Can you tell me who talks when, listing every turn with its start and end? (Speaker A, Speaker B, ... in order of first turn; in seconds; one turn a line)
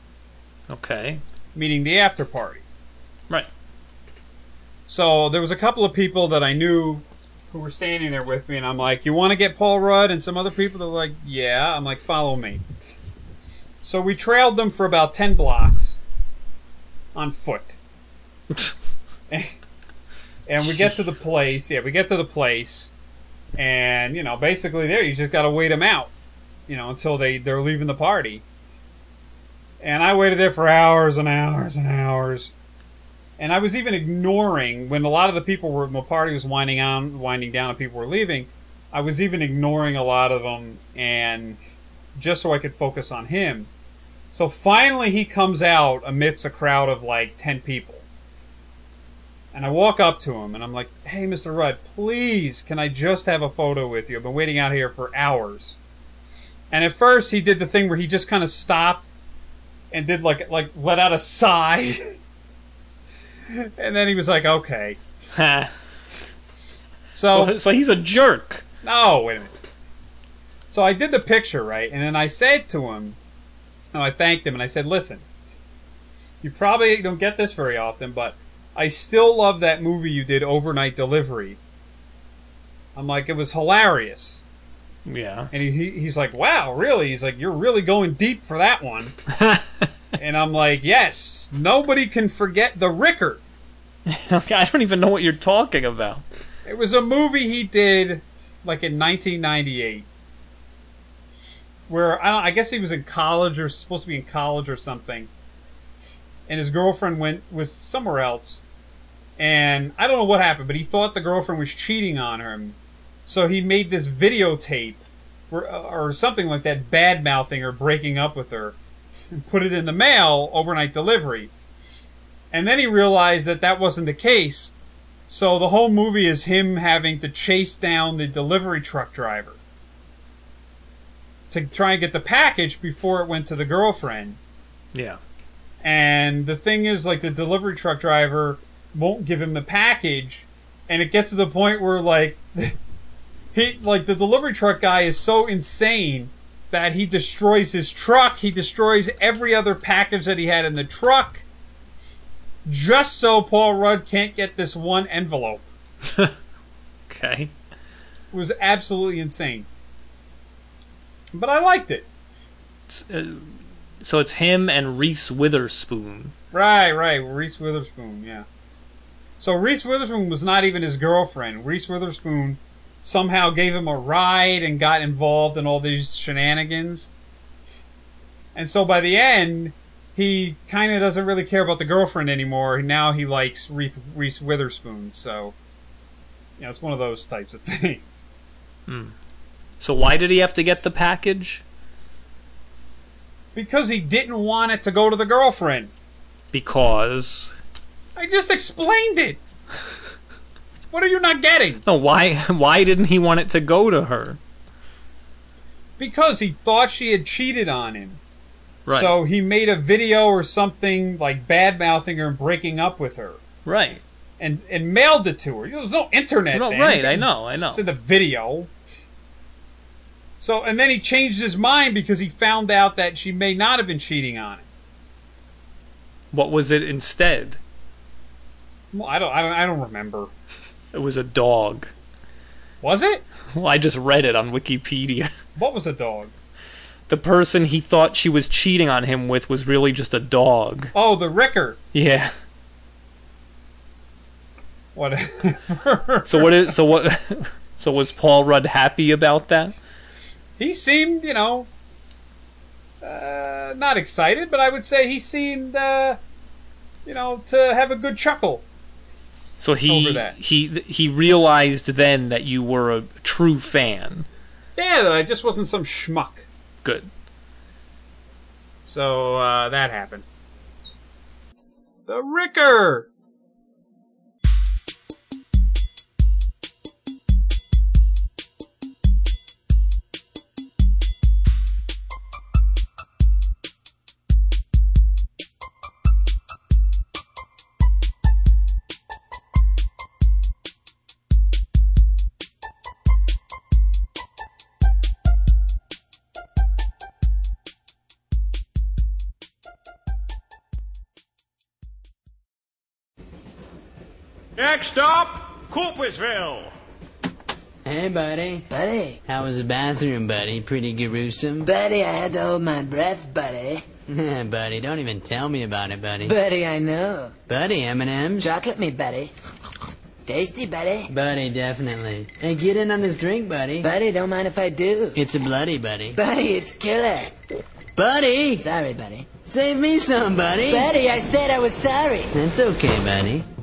Speaker A: 0.7-1.2
Speaker B: 1.5-2.6
Speaker B: 4.9-12.6
Speaker B: 13.8-16.0
Speaker B: 17.1-17.8
Speaker B: 20.5-22.9
Speaker B: 23.6-26.1
Speaker B: 26.7-28.4
Speaker B: 29.8-32.5
Speaker B: 33.4-41.6
Speaker B: 42.1-43.7
Speaker B: 44.3-48.0
Speaker B: 49.5-55.8
Speaker B: 56.7-59.1
Speaker B: 59.9-62.1
Speaker B: 63.5-65.0
Speaker A: 65.3-65.7
Speaker B: 67.1-67.6
Speaker A: 67.3-68.6
Speaker B: 68.8-69.5
Speaker B: 70.7-73.2
Speaker B: 73.9-75.2
Speaker B: 76.4-81.6
Speaker B: 82.9-84.4
Speaker A: 85.0-85.5
Speaker B: 85.5-89.1
Speaker A: 89.3-89.8
Speaker B: 90.2-93.4
Speaker A: 94.1-96.2
Speaker B: 96.6-100.1
Speaker B: 101.9-105.3
Speaker B: 106.5-108.6
Speaker B: 109.4-118.8
Speaker B: 119.3-121.5
Speaker B: 122.5-124.7
Speaker B: 125.3-129.6
Speaker B: 131.5-134.4
Speaker A: 134.9-135.2
Speaker B: 135.8-142.8
Speaker B: 143.5-151.4
Speaker B: 152.7-155.6
Speaker A: 156.1-156.3
Speaker A: 157.1-157.5
Speaker B: 158.3-159.7
Speaker B: 161.3-162.1
Speaker A: 162.9-166.3
Speaker B: 166.5-168.4
Speaker B: 169.4-177.1
Speaker B: 178.5-185.5
Speaker B: 186.6-188.2
Speaker A: 188.9-189.1
Speaker A: 189.8-191.6
Speaker B: 193.5-195.9
Speaker A: 196.5-197.6
Speaker B: 198.2-199.4
Speaker B: 200.9-201.8
Speaker A: 201.8-204.4
Speaker B: 206.0-208.2
Speaker A: 208.8-209.2
Speaker B: 208.9-213.4
Speaker A: 213.7-214.0
Speaker B: 214.4-218.7
Speaker A: 216.5-217.8
Speaker B: 220.4-224.7
Speaker A: 226.3-227.6
Speaker B: 228.9-230.3
Speaker A: 230.9-231.9
Speaker B: 232.8-233.2
Speaker A: 233.5-235.3
Speaker B: 235.6-236.3
Speaker A: 237.1-240.9
Speaker B: 240.9-241.8
Speaker A: 241.9-242.3
Speaker B: 244.9-246.7
Speaker A: 246.3-249.8
Speaker B: 250.6-251.7
Speaker B: 253.0-256.2
Speaker B: 257.0-258.6
Speaker A: 259.6-264.3
Speaker B: 259.8-260.4
Speaker B: 264.8-266.5
Speaker A: 266.8-267.1
Speaker B: 268.8-270.2
Speaker B: 272.1-273.1
Speaker C: 304.6-306.7
Speaker D: 307.8-308.6
Speaker E: 308.7-309.2
Speaker D: 309.2-311.7
Speaker E: 311.6-313.8
Speaker D: 314.1-316.3
Speaker E: 316.2-317.3
Speaker D: 317.5-318.5
Speaker E: 318.4-319.3
Speaker E: 320.2-321.1
Speaker D: 321.1-323.9
Speaker E: 323.8-325.2
Speaker D: 325.1-326.2
Speaker E: 326.1-327.3
Speaker D: 327.9-328.7
Speaker E: 328.6-329.3
Speaker D: 329.4-330.9
Speaker E: 330.6-332.3
Speaker D: 332.3-333.4